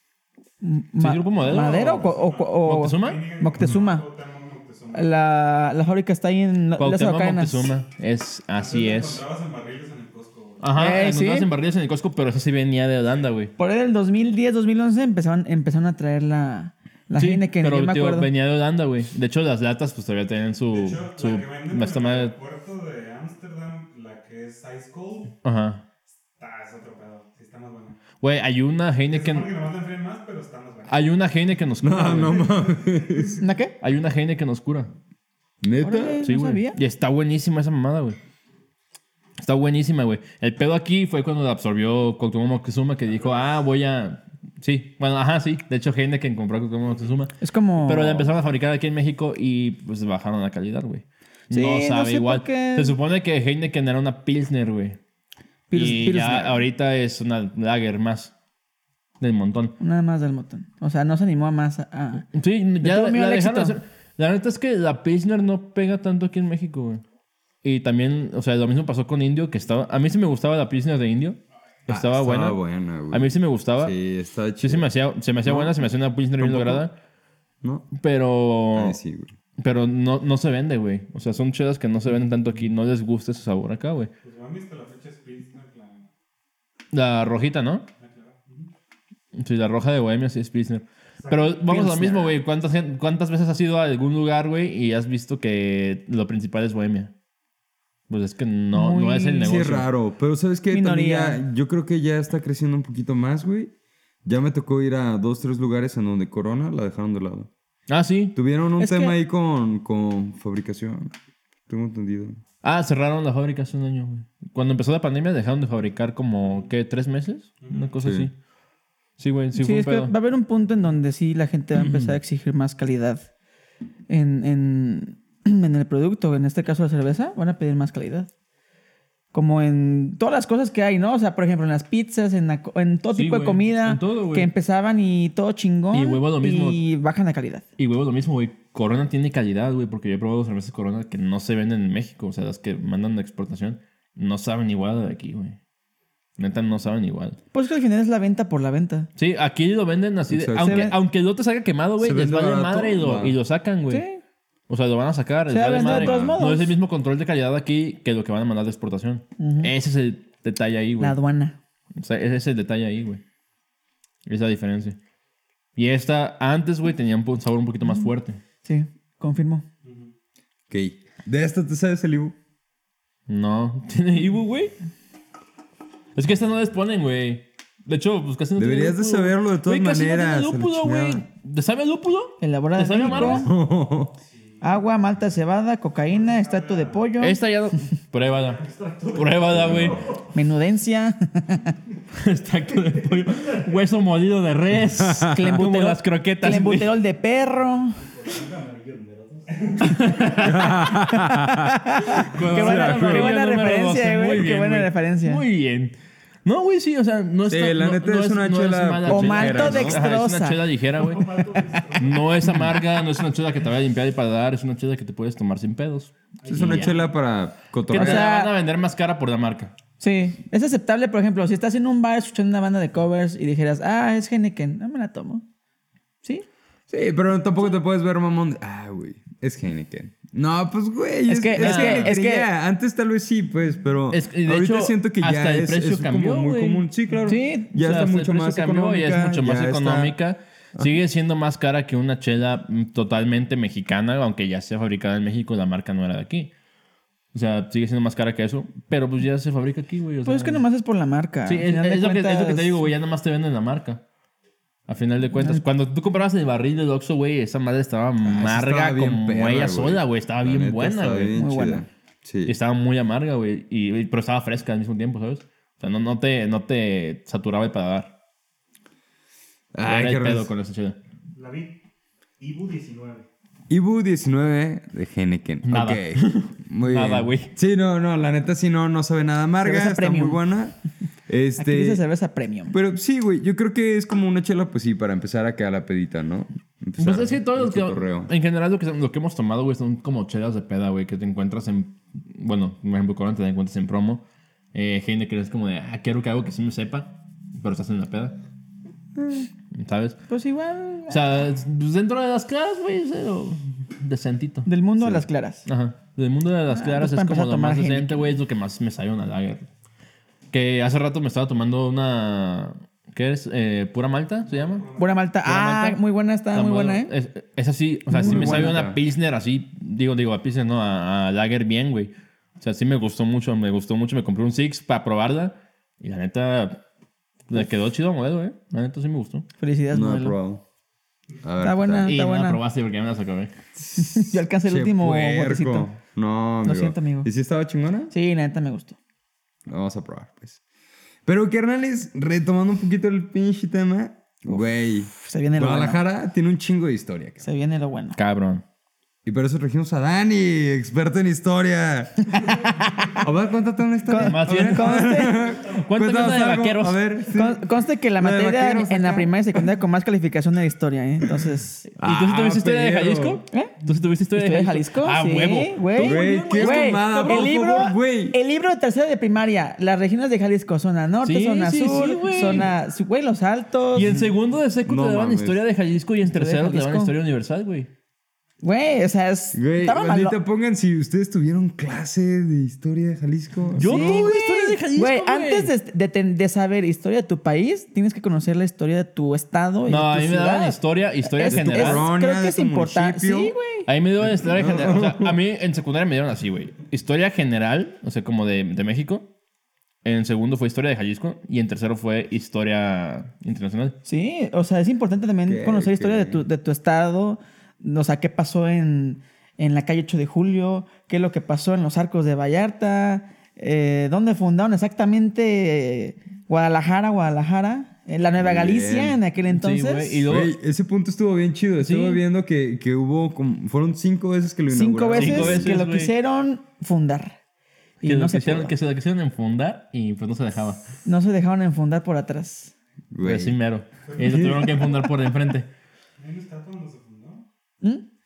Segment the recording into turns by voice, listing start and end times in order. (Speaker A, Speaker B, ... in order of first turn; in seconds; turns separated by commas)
Speaker A: 0.6-4.0, Speaker B: 1.0-3.2, Speaker C: 1.4-5.1, Speaker A: 4.9-7.7, Speaker B: 6.8-9.2, Speaker C: 8.5-10.7, Speaker B: 10.6-13.5, Speaker A: 10.7-11.5, Speaker A: 13.6-18.3, Speaker B: 17.2-22.4, Speaker C: 20.7-25.4, Speaker B: 25.4-25.8, Speaker C: 26.4-28.0, Speaker B: 28.2-29.5, Speaker C: 29.1-31.2, Speaker B: 30.9-32.5, Speaker D: 31.8-33.4, Speaker C: 32.0-33.4, Speaker A: 33.4-33.8, Speaker B: 33.8-34.9, Speaker D: 35.6-36.2, Speaker A: 35.8-36.8, Speaker B: 36.2-38.2, Speaker B: 39.4-55.0, Speaker C: 46.9-47.2, Speaker A: 47.4-48.3, Speaker A: 51.5-53.0, Speaker A: 55.7-56.6, Speaker B: 55.7-58.3, Speaker B: 59.2-59.7, Speaker A: 59.8-62.2, Speaker B: 62.3-67.0, Speaker A: 62.8-63.8, Speaker B: 67.6-72.6, Speaker D: 71.9-74.9, Speaker B: 73.1-74.0, Speaker B: 74.6-76.9, Speaker D: 75.4-75.9, Speaker D: 76.4-76.8, Speaker D: 77.6-77.9, Speaker B: 78.0-79.0, Speaker D: 78.7-79.3, Speaker B: 79.6-84.1, Speaker C: 84.2-86.1, Speaker B: 86.9-87.9, Speaker C: 88.0-88.7, Speaker B: 89.3-97.1, Speaker E: 91.2-91.5, Speaker A: 91.6-92.4, Speaker B: 98.1-99.9, Speaker A: 98.7-99.5, Speaker D: 99.4-103.7, Speaker A: 100.7-101.4, Speaker D: 104.2-107.5, Speaker B: 107.9-108.3, Speaker D: 108.3-111.1, Speaker A: 108.8-109.1, Speaker D: 111.7-112.4, Speaker B: 112.6-118.3, Speaker C: 117.6-117.9, Speaker D: 118.0-118.3, Speaker B: 119.2-120.1, Speaker A: 119.6-123.2, Speaker A: 124.1-128.3, Speaker A: 129.3-137.6, Speaker B: 133.1-134.5, Speaker B: 135.9-136.8, Speaker B: 137.8-145.6, Speaker B: 146.4-147.4, Speaker A: 147.5-149.1, Speaker B: 149.2-154.1, Speaker D: 150.3-150.9, Speaker A: 150.6-150.9, Speaker D: 152.0-153.4, Speaker A: 153.9-154.2, Speaker B: 154.7-161.2, Speaker A: 155.5-156.7, Speaker D: 155.8-156.4, Speaker A: 159.4-159.7, Speaker A: 161.0-161.6, Speaker B: 162.0-163.2, Speaker B: 164.3-165.0, Speaker B: 165.8-168.4, Speaker A: 168.6-169.6, Speaker C: 169.8-170.1, Speaker D: 170.7-172.4, Speaker B: 173.3-174.7, Speaker B: 176.1-183.5, Speaker D: 178.6-181.2, Speaker A: 182.4-183.5, Speaker D: 183.0-184.2, Speaker C: 184.3-184.8, Speaker A: 184.6-187.4, Speaker C: 186.1-187.2, Speaker B: 187.2-190.0, Speaker E: 188.3-190.2, Speaker D: 189.5-190.0, Speaker A: 190.3-191.7, Speaker B: 192.1-196.9, Speaker D: 194.9-195.5, Speaker A: 195.3-198.0, Speaker E: 198.0-200.8, Speaker B: 199.8-200.9, Speaker D: 200.4-203.3, Speaker A: 201.1-205.4, Speaker B: 202.2-211.5, Speaker D: 207.5-210.0, Speaker A: 209.1-210.6, Speaker E: 210.9-212.5, Speaker B: 212.0-217.0, Speaker E: 216.4-217.1, Speaker D: 216.4-218.3, Speaker B: 217.9-219.7, Speaker A: 217.9-218.5, Speaker A: 220.0-225.4, Speaker D: 226.9-240.2, Speaker A: 231.3-232.5, Speaker B: 231.6-232.1, Speaker B: 234.1-236.8, Speaker A: 237.3-237.7, Speaker B: 237.7-246.5, Speaker B: 247.3-250.6, Speaker A: 250.2-252.8, Speaker B: 251.4-254.0, Speaker B: 254.9-261.3, Speaker A: 255.4-255.6, Speaker D: 258.2-262.6, Speaker A: 261.4-261.9, Speaker B: 262.4-268.1, Speaker D: 269.7-270.5, Speaker B: 269.8-271.0, Speaker E: 271.4-271.8, Speaker E: 272.4-273.3, Speaker D: 273.7-280.8, Speaker B: 275.6-277.5, Speaker A: 279.6-280.4, Speaker D: 281.3-282.0, Speaker A: 281.6-282.7, Speaker D: 282.7-288.3, Speaker B: 287.0-294.2, Speaker B: 294.7-298.4, Speaker B: 299.7-300.1, Speaker A: 300.3-301.2, Speaker B: 301.1-304.7, Speaker A: 304.6-305.6, Speaker B: 305.6-309.7, Speaker A: 306.7-308.3, Speaker B: 310.5-314.9, Speaker C: 314.5-315.1, Speaker A: 314.9-317.1, Speaker B: 315.4-316.0, Speaker B: 316.5-326.8, Speaker A: 318.1-318.7, Speaker D: 318.2-319.0, Speaker B: 327.5-329.4, Speaker A: 329.6-330.4, Speaker D: 329.9-330.6, Speaker D: 331.4-332.1, Speaker A: 331.6-332.6, Speaker B: 332.1-333.5, Speaker D: 333.8-338.1, Speaker A: 333.9-335.9, Speaker A: 336.6-337.3, Speaker A: 338.1-339.0, Speaker D: 339.6-340.6, Speaker D: 341.3-347.4, Speaker A: 345.1-346.0, Speaker A: 347.4-348.2, Speaker B: 348.1-348.6, Speaker D: 349.2-352.4, Speaker A: 352.4-353.1, Speaker D: 353.1-357.6, Speaker A: 354.1-355.4, Speaker B: 354.2-357.0, Speaker A: 357.3-361.9, Speaker D: 358.2-359.6, Speaker B: 361.9-367.5, Speaker D: 362.0-363.4, Speaker A: 363.5-363.8, Speaker A: 364.4-374.1, Speaker D: 366.0-368.4, Speaker B: 371.2-372.7, Speaker B: 373.9-377.9, Speaker D: 374.0-374.3, Speaker D: 374.8-375.6, Speaker A: 376.3-377.1, Speaker A: 378.6-380.4, Speaker D: 379.5-384.3, Speaker B: 383.7-385.7, Speaker A: 383.8-393.9, Speaker B: 389.9-392.1, Speaker D: 391.5-393.6, Speaker B: 393.9-399.3, Speaker D: 394.2-395.4, Speaker B: 400.0-403.9, Speaker A: 404.1-420.2, Speaker D: 405.5-406.4, Speaker D: 418.4-419.2, Speaker B: 419.5-420.5, Speaker D: 420.3-425.7, Speaker B: 421.8-422.2, Speaker A: 424.7-427.4, Speaker B: 425.1-426.1, Speaker A: 428.0-428.7, Speaker B: 428.0-430.8, Speaker A: 431.1-432.7, Speaker D: 433.1-433.6, Speaker B: 433.2-435.7, Speaker D: 434.2-434.9, Speaker C: 436.2-437.4